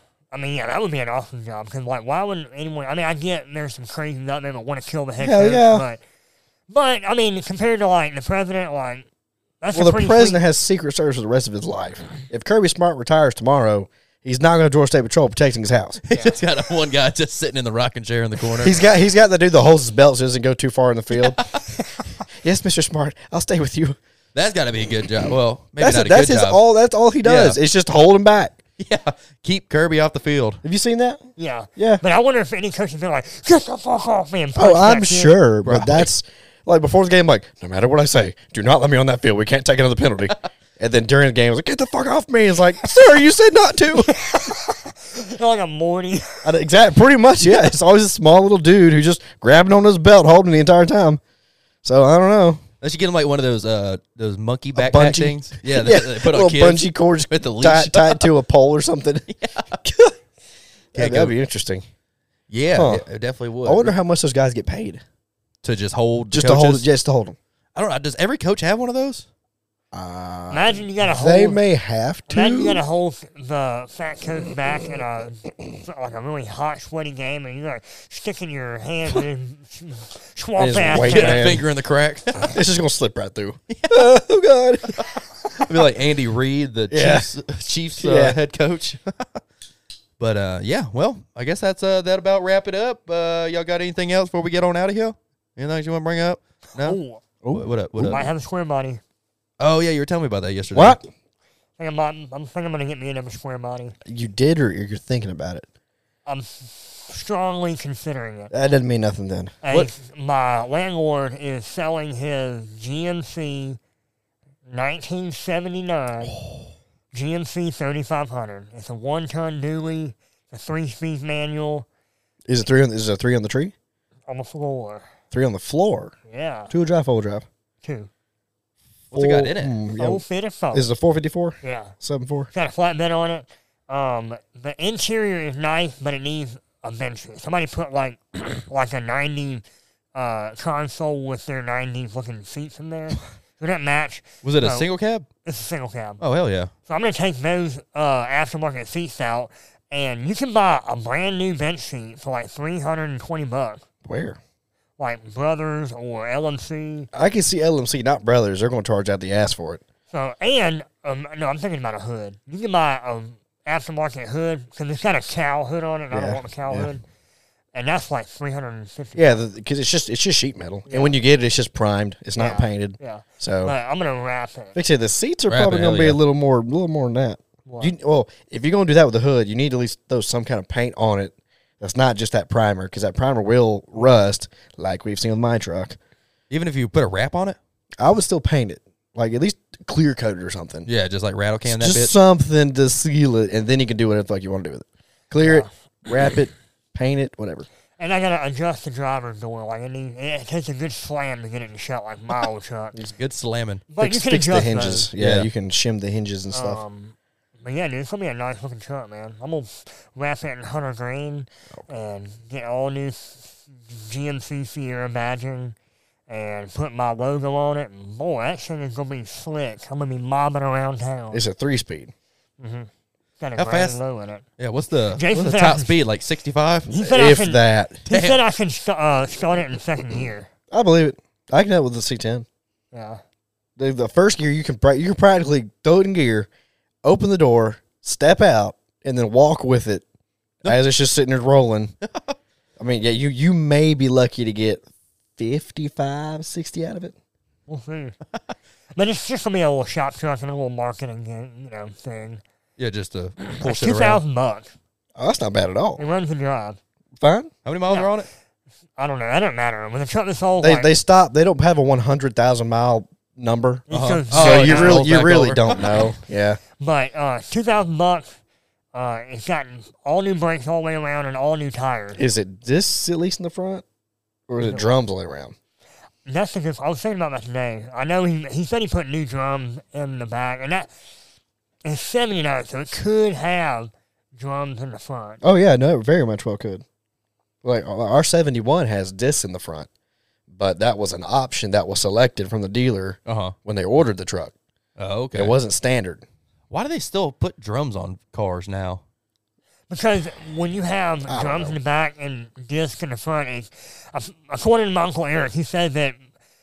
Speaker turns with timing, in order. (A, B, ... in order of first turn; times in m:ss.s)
0:00.3-0:06.0 A
0:05.2-0:05.8 B
0:06.7-0:09.0 A
0:09.6-0:10.4 A
0:09.7-0:16.0 B
0:16.1-0:18.8 C
0:18.6-0:21.5 B
0:21.1-0:21.4 C
0:22.4-0:24.0 B
0:24.3-0:26.6 C
0:25.8-0:28.6 B
0:27.2-0:27.6 C
0:28.8-0:30.6 C
0:30.6-0:31.2 B
0:31.4-0:35.3 A
0:31.8-0:32.0 B
0:34.6-0:44.1 B
0:35.6-0:36.1 C
0:44.0-0:46.5 A
0:46.4-0:51.2 B
0:51.8-0:52.6 B
0:52.8-0:58.2 C
0:54.8-0:59.3 B
0:59.3-0:59.8 C
0:59.8-1:00.2 B
1:00.9-1:01.8 B
1:01.0-1:01.3 C
1:02.5-1:03.9 C
1:02.7-1:03.0 B
1:03.6-1:05.0 B
1:05.6-1:06.9 C
1:06.3-1:07.4 B
1:07.7-1:09.2 C
1:09.9-1:12.8 B
1:10.5-1:11.6 A
1:12.3-1:21.5 A
1:20.6-1:21.6 B
1:20.9-1:22.5 C
1:22.4-1:25.0 B
1:23.7-1:24.1 C
1:25.6-1:29.4 C
1:26.9-1:27.2 B
1:28.0-1:28.4 B
1:30.2-1:37.0 C
1:36.8-1:37.2 A
1:37.4-1:38.3 B
1:37.5-1:38.2 C
1:38.1-1:39.0 A
1:39.6-1:41.0 C
1:40.7-1:41.0 B
1:41.8-1:44.0 A
1:44.0-1:45.7 B
1:46.2-1:48.5 A
1:48.5-1:49.6 B
1:49.6-1:53.8 A
1:54.7-1:56.3 A
1:57.1-2:01.8 A
2:02.5-2:03.7 B
2:04.3-2:05.1 A
2:05.3-2:06.1 B
2:06.3-2:06.7 A
2:06.7-2:07.4 B
2:07.8-2:08.1 A
2:09.1-2:09.7 C
2:09.1-2:12.5 B
2:09.9-2:10.9 A
2:11.6-2:11.9 A
2:12.5-2:19.6 A
2:20.1-2:24.9 A
2:24.4-2:25.2 C
2:25.4-2:26.2 A
2:26.2-2:26.7 C
2:26.9-2:33.8 A
2:34.0-2:34.4 B
2:35.0-2:37.1 A
2:37.1-2:39.8 B
2:40.1-2:47.0 A
2:46.1-2:46.9 B
2:47.7-2:49.4 A
2:49.2-2:53.7 B
2:50.9-2:51.2 A
2:52.4-2:54.8 A
2:54.7-3:06.0 B
2:55.5-2:56.2 C
2:57.6-2:57.9 A
3:06.5-3:07.6 C
3:08.0-3:10.9 B
3:10.8-3:12.1 C
3:11.7-3:17.7 B
3:15.4-3:15.7 A
3:18.0-3:22.9 A
3:23.0-3:23.8 C
3:23.9-3:25.1 A
3:24.0-3:26.8 B
3:25.2-3:25.5 C
3:26.5-3:35.7 A
3:36.3-3:41.4 A
3:41.3-3:42.1 B
3:42.6-3:42.9 A
3:43.4-3:44.4 A
3:43.6-3:44.0 C
3:44.6-3:46.9 C
3:45.2-3:45.9 A
3:46.9-3:50.5 A
3:46.9-3:48.0 B
3:48.1-3:48.4 C
3:50.7-3:52.4 B
3:52.9-3:53.2 A
3:53.8-3:56.5 B
3:57.0-4:00.0 B
4:00.6-4:01.9 B
4:02.8-4:04.8 B
4:05.4-4:07.1 B
4:07.7-4:08.1 A
4:09.0-4:12.4 A
4:12.8-4:14.2 C
4:13.4-4:14.7 A
4:15.2-4:16.0 B
4:16.0-4:16.8 A
4:17.2-4:17.5 B
4:17.6-4:18.3 C
4:17.9-4:18.1 A
4:19.0-4:20.9 A
4:20.6-4:26.6 B
4:23.9-4:25.1 A
4:23.9-4:26.1 C
4:26.8-4:28.4 A
4:28.9-4:32.2 A
4:32.1-4:33.8 B
4:34.5-4:35.5 B
4:34.6-4:34.8 A
4:36.2-4:40.9 A
4:41.8-4:45.4 A
4:45.4-4:46.8 B
4:47.6-4:49.9 B
4:50.5-4:54.5 B
4:53.2-4:53.5 C
4:55.0-4:55.5 C
4:55.3-4:56.2 B
4:56.7-4:59.0 C
4:59.9-5:06.2 A
5:01.3-5:01.7 B